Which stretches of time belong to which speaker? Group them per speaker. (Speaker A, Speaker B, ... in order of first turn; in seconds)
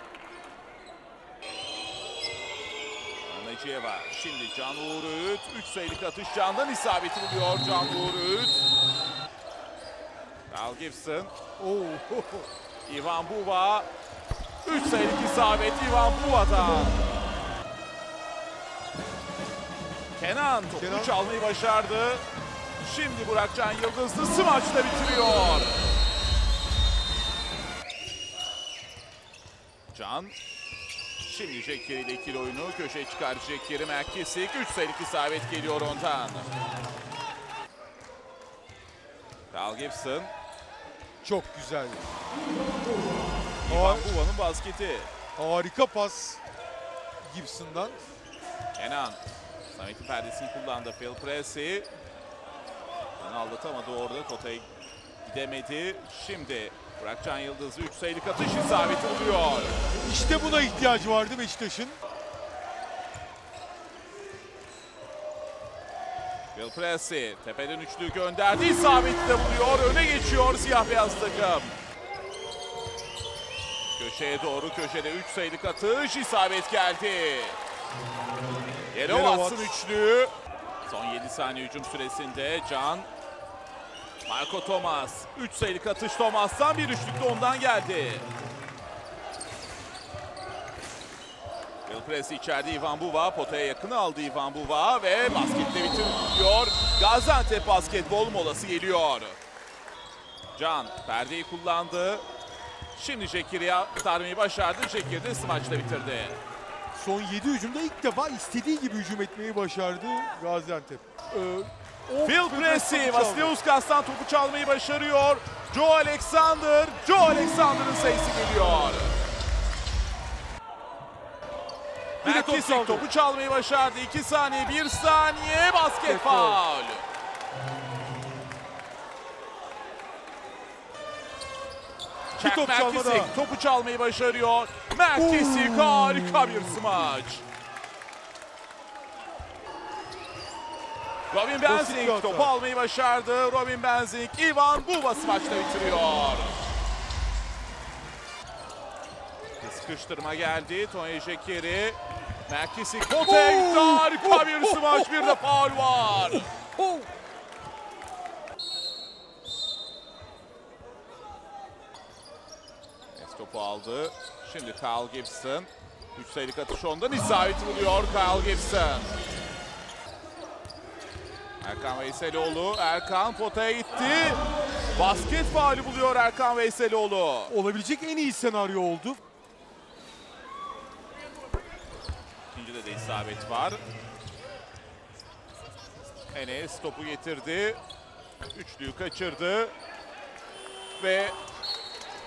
Speaker A: 3.2-8.6, 10.5-11.3, 12.8-13.9, 14.6-17.0, 20.2-22.2, 22.8-25.9, 29.9-30.3, 31.2-36.5, 39.5-40.3, 43.6-45.1, 48.8-49.2, 49.7-51.9, 53.2-54.6, 55.2-59.8, 66.5-71.8, 74.0-77.6, 78.9-80.3, 80.8-83.1, 84.2-88.3, 91.8-99.4, 100.5-102.2, 102.9-106.4, 112.2-119.1, 122.2-127.0, 132.4-137.4, 141.3-146.6, 149.6-156.5, 163.1-169.1, 171.6-174.4, 174.9-177.5, 182.5-183.8, 186.3-187.8, 188.5-189.7, 191.0-191.3
Speaker B: 11.6-12.4, 20.7-21.1, 41.2-42.0, 43.7-44.1, 45.4-46.4, 47.2-48.0, 60.0-62.0, 79.0-79.7, 106.9-113.5, 122.2-123.0, 126.0-126.6, 132.4-133.3, 135.2-135.5, 141.7-142.5, 153.7-154.2, 177.5-179.2